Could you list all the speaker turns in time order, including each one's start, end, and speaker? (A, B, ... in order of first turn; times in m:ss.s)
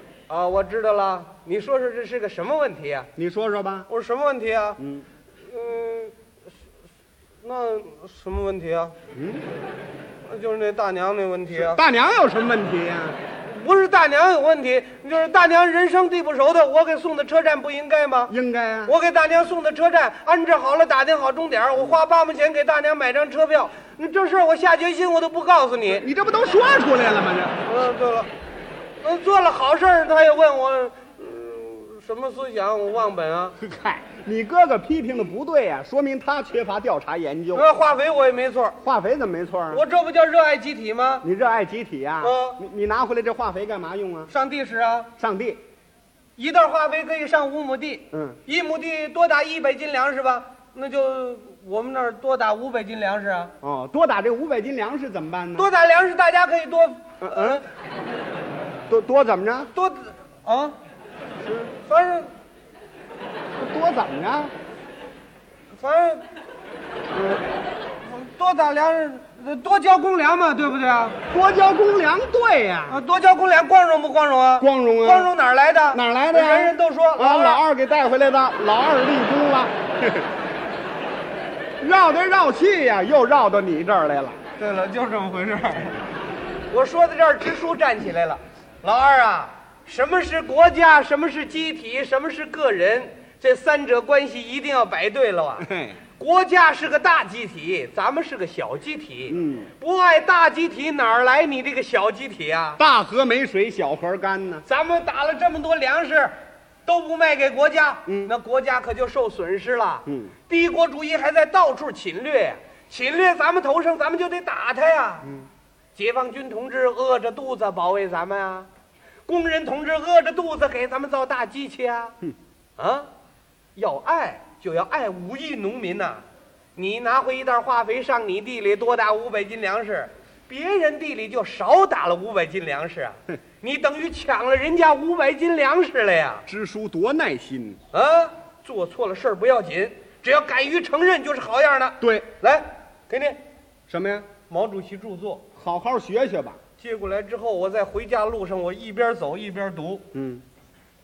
0:00.3-0:03.1 A
0:03.2-0:03.9 B
0:03.9-0:04.8 A
0:04.8-0:05.0 B
0:05.4-0:06.1 A
0:07.4-0:08.9 A
0:09.1-0:09.4 B
0:10.3-0:11.8 A
0:11.5-0:13.2 B
0:13.4-0:18.3 A
0:18.3-0:18.9 B
0:18.8-0:26.0 A
0:25.9-0:27.6 B
0:27.6-0:28.3 A
0:29.0-0:33.6 A
0:33.6-0:37.7 B
0:37.5-0:38.8 A
0:38.8-0:39.8 B
0:39.7-0:41.2 A
0:41.2-0:44.3 B
0:42.2-0:42.6 A
0:44.3-0:45.1 A
0:45.2-0:45.6 B
0:46.4-0:53.5 A
0:48.1-0:48.4 B
0:53.6-0:55.7 B
0:55.6-0:57.6 A
0:57.2-0:57.6 B
0:58.9-0:59.7 B
0:59.7-1:00.7 A
1:01.4-1:01.7 B
1:01.8-1:02.3 A
1:03.6-1:04.5 B
1:05.7-1:06.2 A
1:07.1-1:07.4 B
1:08.0-1:11.2 A
1:11.3-1:13.0 B
1:12.9-1:17.6 A
1:14.6-1:15.3 B
1:15.9-1:20.3 B
1:21.8-1:24.4 B
1:24.6-1:26.0 A
1:26.7-1:35.7 A
1:35.6-1:36.0 B
1:36.2-1:42.8 A
1:39.3-1:39.7 B
1:42.8-1:44.6 B
1:44.6-1:46.3 A
1:46.8-1:55.3 A
1:50.1-1:50.3 B
1:56.0-1:58.7 A
1:59.3-2:02.1 A
2:02.8-2:03.1 A
2:03.8-2:06.2 A
2:06.8-2:16.4 A
2:16.4-2:17.8 B
2:17.9-2:23.4 A
2:22.0-2:22.3 B
2:23.9-2:24.3 B
2:24.5-2:25.4 A
2:25.6-2:26.6 B
2:26.8-2:30.0 A
2:30.1-2:30.4 B